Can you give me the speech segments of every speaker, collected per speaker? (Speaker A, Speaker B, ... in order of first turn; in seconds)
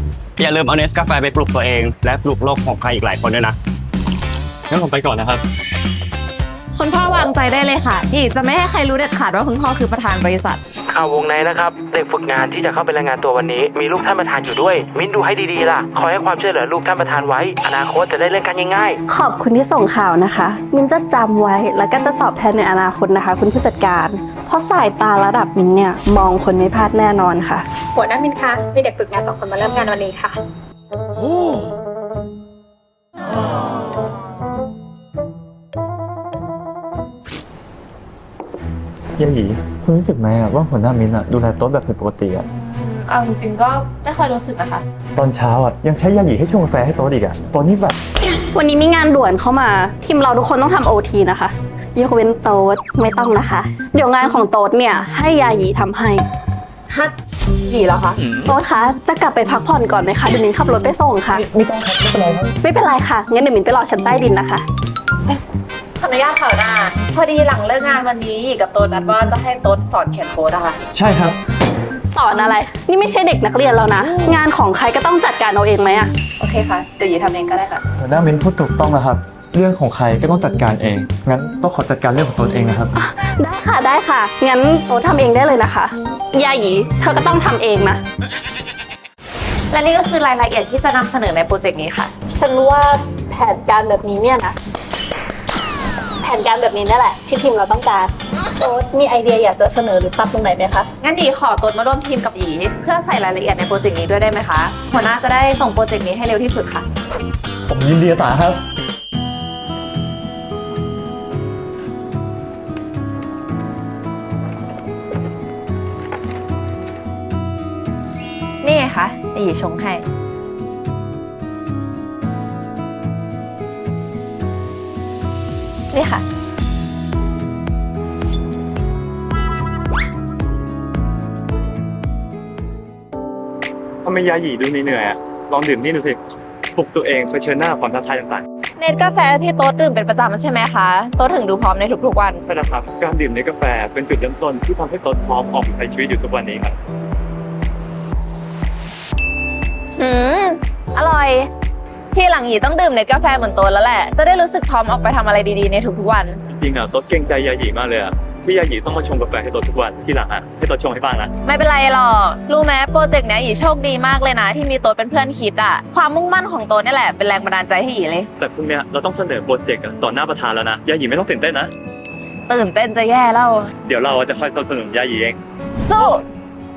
Speaker A: 0.4-3.5
Speaker B: 4.7-5.4, 134.0-136.2, 136.7-138.4, 142.4-146.8, 156.5-161.3, 168.4-171.7, 173.8-175.4
Speaker C: 6.7-10.6, 42.5-44.8, 57.6-58.2, 66.0-70.8, 76.4-77.8, 89.7-92.1, 101.0-106.8, 118.6-120.0, 125.9-126.2, 138.8-142.4, 150.0-151.5, 152.1-156.4, 161.4-168.3, 172.5-173.7, 175.8-176.2
Speaker D: 10.9-18.9
Speaker E: 19.1-27.6, 48.3-56.2, 58.5-61.4, 62.6-64.6, 72.1-76.1, 83.0-88.0, 92.3-94.5, 96.2-100.9
Speaker F: 27.9-30.4
Speaker G: 39.2-42.5, 45.1-47.9, 61.3-62.5, 70.9-71.4, 78.0-82.9, 107.7-108.6